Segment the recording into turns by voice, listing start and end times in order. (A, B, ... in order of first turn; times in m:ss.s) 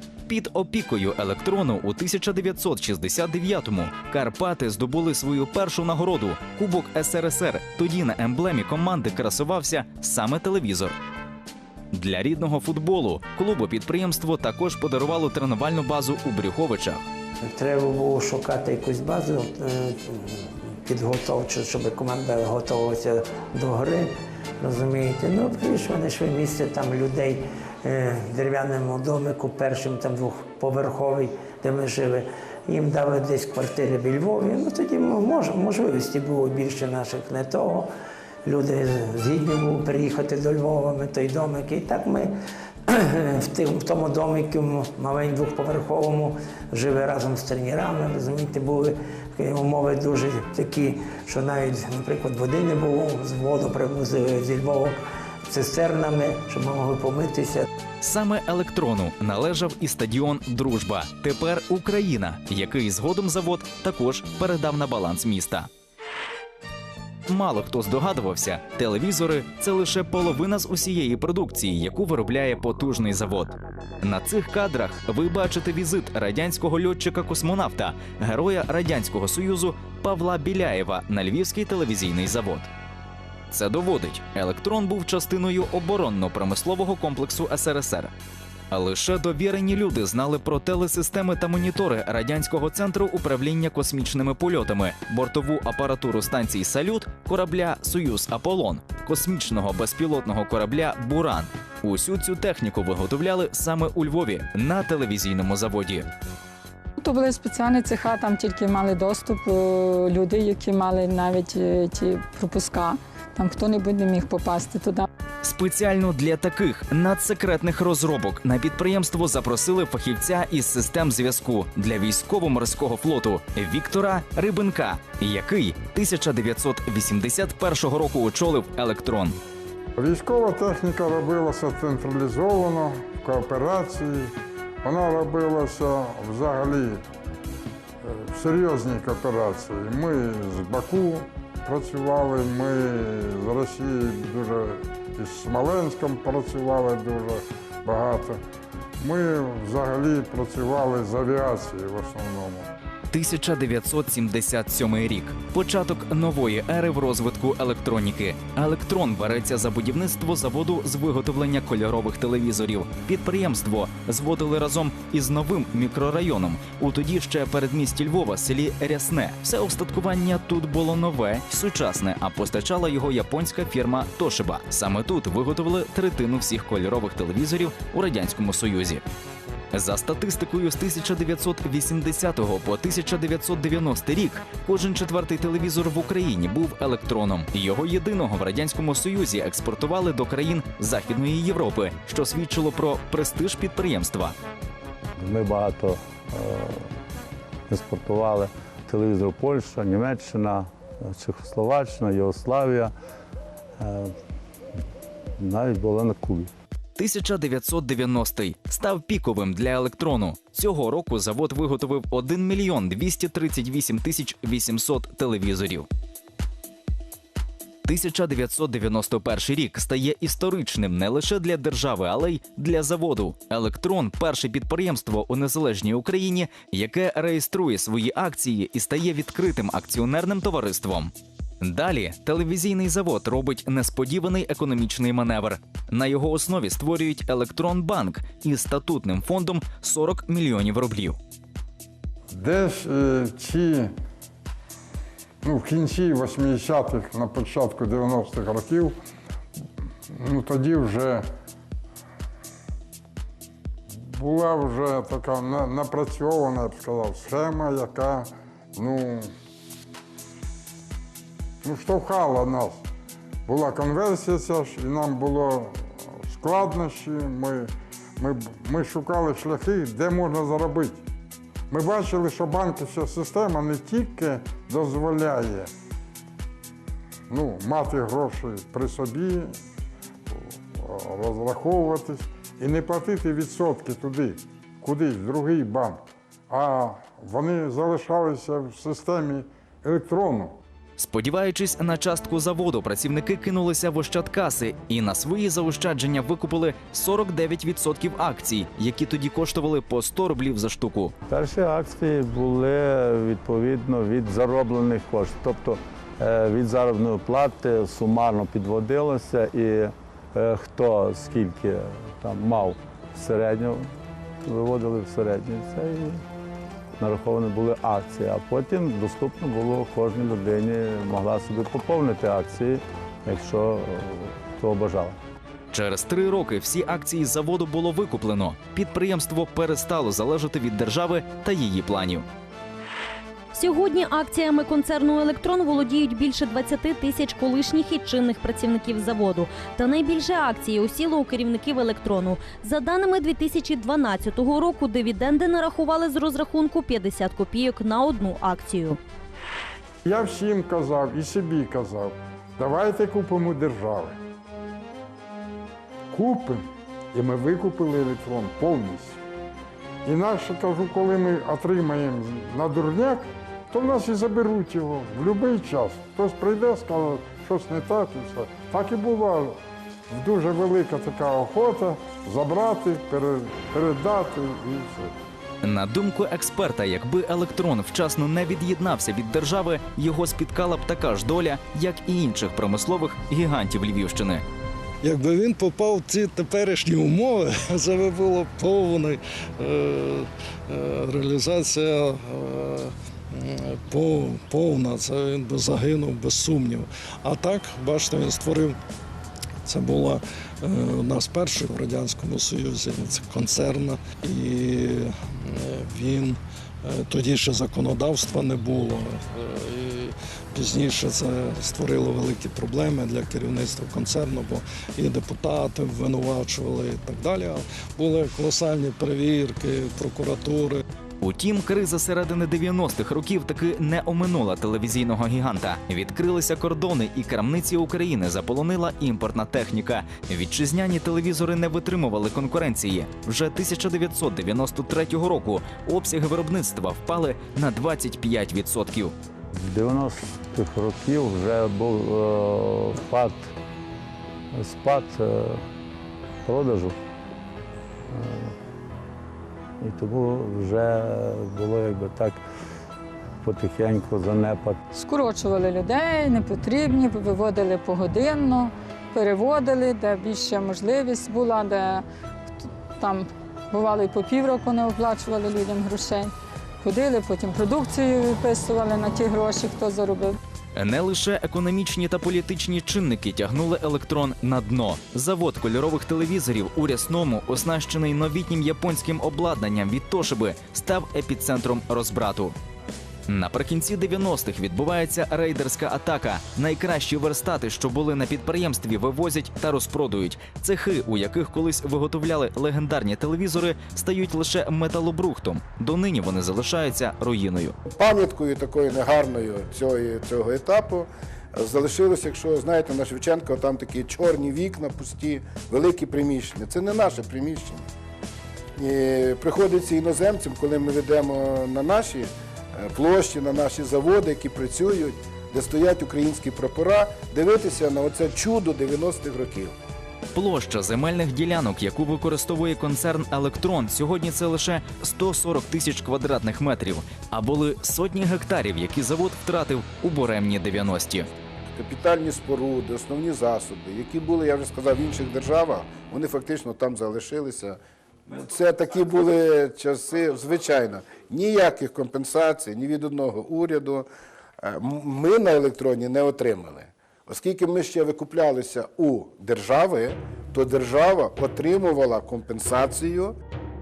0:00.3-0:11.0 A
0:11.9-0:17.1 A
0:17.5-0:37.9 B
0:38.4-0:42.3 B
0:42.9-0:57.7 B
0:58.0-1:05.7 A
1:07.3-1:22.7 A
1:23.5-1:28.1 A
1:28.7-1:46.1 A
1:47.0-1:55.1 C
1:55.4-2:09.4 A
2:10.0-2:17.0 D
2:18.0-2:28.4 D
2:29.0-2:32.7 D
2:33.1-2:59.0 A
2:59.7-3:14.4 A
3:15.2-3:16.9 E
3:17.7-3:22.9 E
3:23.8-3:24.2 E
3:25.4-3:26.5 E
3:27.0-3:35.9 A
3:37.9-4:01.2 A
4:02.3-4:03.9 D
4:05.4-4:09.0 D
4:10.1-4:11.3 D
4:13.9-4:19.3 D
4:21.6-4:22.8 D
4:23.5-4:31.0 D
4:31.7-4:35.7 D
4:37.3-4:39.6 D
4:40.3-4:50.6 D
4:51.0-5:01.1 A
5:01.3-5:13.9 E
5:14.4-5:16.2 E
5:17.0-5:25.2 E
5:25.7-5:32.3 A
5:33.5-5:49.0 F
5:50.0-5:54.2 D
5:56.1-5:59.2 D
6:00.0-6:09.6 D
6:10.1-6:15.1 D
6:15.6-6:24.4 A
6:25.0-6:38.8 G
6:39.6-7:00.8 G
7:01.2-7:19.1 A
7:19.5-7:23.5 E
7:24.5-7:25.6 E
7:26.4-7:27.0 E
7:28.1-7:28.6 E
7:29.8-7:32.4 E
7:33.4-7:34.8 E
7:34.9-7:42.0 C
7:42.6-7:50.4 C
7:50.8-8:02.6 A
8:03.3-8:17.8 A
8:17.9-8:27.9 H
8:28.8-8:39.8 H
8:40.3-8:51.3 A
8:51.8-9:04.1 H
9:04.6-9:13.4 H